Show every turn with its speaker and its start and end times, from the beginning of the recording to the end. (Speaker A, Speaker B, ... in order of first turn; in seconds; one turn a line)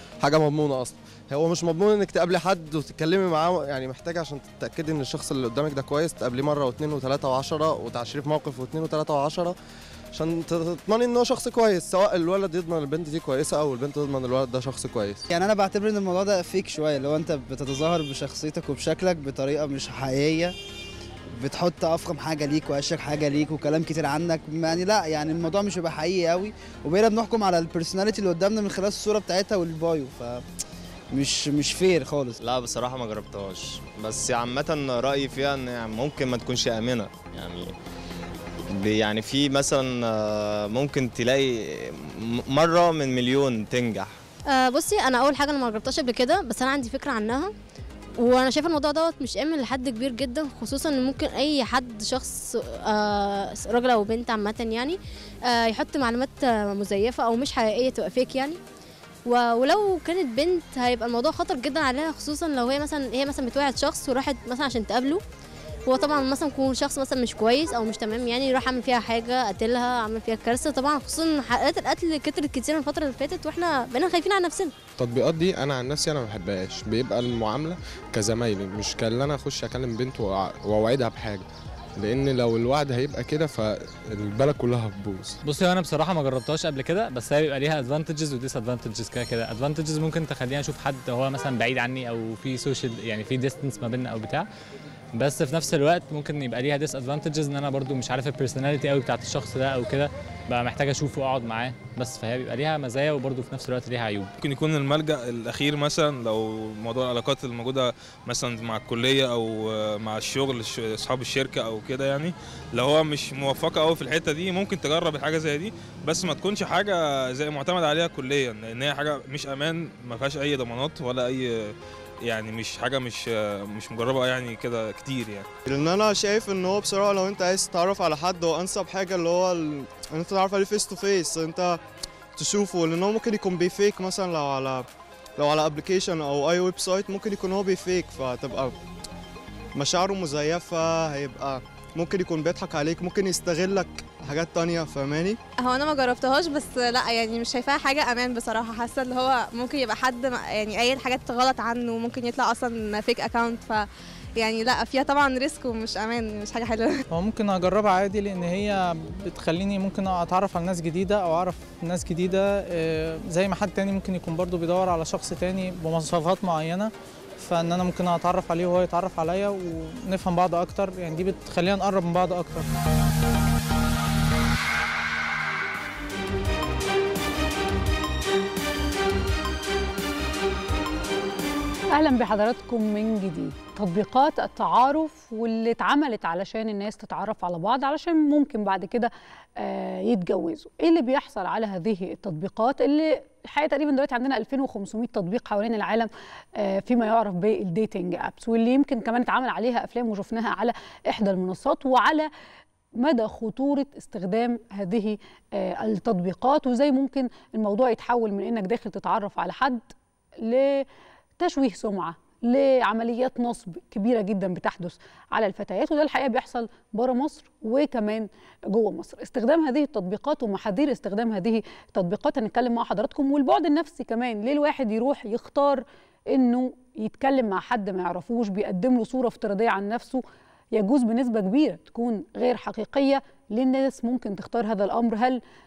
Speaker A: 0.2-9.5
Speaker A: 10.1-15.2
Speaker B: 15.3-20.5
Speaker B: 21.4-30.4
Speaker B: 31.1-32.4
Speaker C: 32.4-37.7
Speaker C: 38.7-44.1
Speaker D: 44.5-47.5
Speaker D: 48.2-58.6
Speaker D: 59.2-65.2
Speaker D: 65.9-74.7
Speaker E: 75.0-81.4
Speaker E: 82.0-85.4
Speaker F: 85.4-94.5
Speaker F: 95.2-104.3
Speaker G: 104.4-125.5
Speaker H: 125.7-131.8
Speaker H: 132.3-138.8
Speaker H: 139.7-145.4
Speaker I: 145.6-157.0
Speaker J: 157.1-172.7
Speaker K: 181.9-202.3
Speaker K: 203.0-209.9
Speaker K: 210.4-210.8
Speaker K: 211.4-230.2
Speaker K: 230.7-235.4